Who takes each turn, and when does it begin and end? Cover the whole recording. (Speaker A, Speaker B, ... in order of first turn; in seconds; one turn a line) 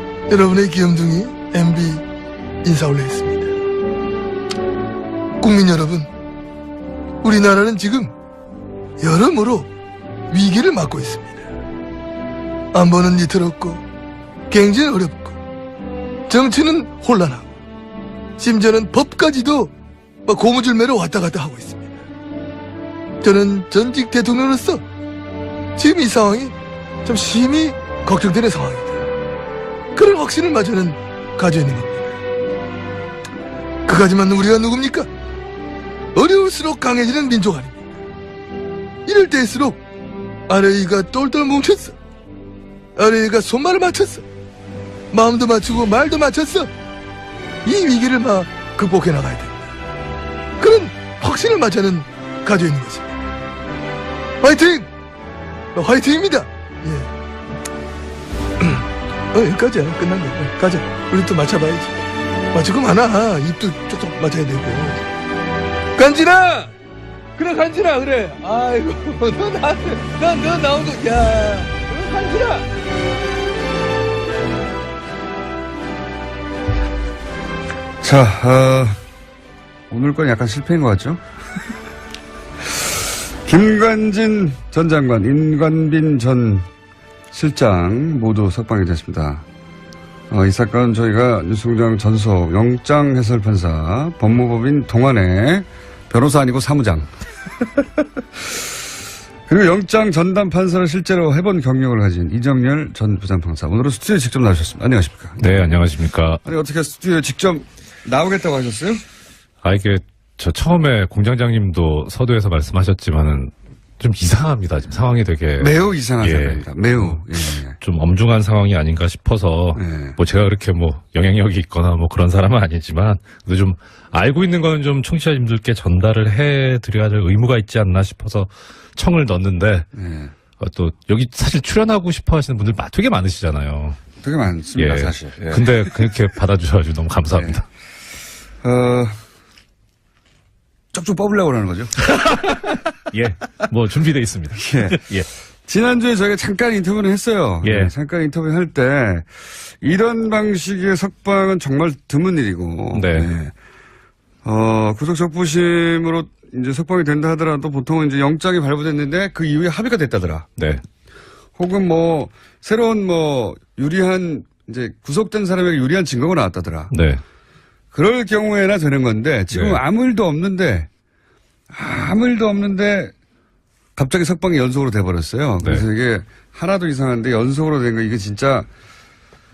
Speaker A: 0.3-2.0
Speaker A: 2.6-3.5
Speaker A: 5.4-6.1
Speaker A: 7.2-8.1
Speaker A: 9.0-9.7
Speaker A: 10.3-11.5
Speaker A: 12.7-13.8
Speaker A: 14.5-15.4
Speaker A: 16.3-17.5
Speaker A: 18.4-19.7
Speaker A: 20.2-22.0
Speaker A: 23.2-24.8
Speaker A: 25.8-29.1
Speaker A: 29.9-32.1
Speaker A: 33.9-35.1
Speaker A: 36.1-37.9
Speaker A: 39.0-39.8
Speaker A: 40.5-42.0
Speaker A: 43.0-44.2
Speaker A: 45.1-46.7
Speaker A: 47.6-49.7
Speaker A: 50.6-53.2
Speaker A: 54.4-54.9
Speaker A: 55.7-57.1
Speaker A: 58.6-61.9
Speaker A: 62.5-65.1
Speaker A: 66.0-66.7
Speaker A: 67.4-72.7
Speaker B: 78.0-79.0
Speaker B: 79.9-81.2
Speaker B: 83.4-86.7
Speaker B: 87.3-89.4
Speaker B: 90.3-97.1
Speaker B: 99.5-105.7
Speaker C: 105.4-106.4
Speaker B: 106.4-109.0
Speaker C: 109.6-117.2
Speaker B: 115.6-117.8
Speaker C: 117.7-129.9
Speaker B: 119.8-120.2
Speaker B: 129.9-130.3
Speaker C: 130.6-134.0
Speaker B: 134.2-135.9
Speaker C: 134.8-137.6
Speaker B: 138.6-139.2
Speaker B: 140.9-141.9
Speaker C: 142.0-145.3
Speaker B: 144.6-145.1
Speaker B: 145.7-149.3
Speaker C: 147.6-147.9
Speaker B: 149.8-153.5
Speaker C: 152.9-153.3
Speaker B: 154.4-160.5
Speaker C: 160.6-160.8
Speaker B: 161.6-166.9
Speaker C: 166.9-167.2
Speaker B: 167.9-170.9
Speaker C: 169.5-169.8
Speaker B: 171.7-173.1
Speaker B: 173.9-178.7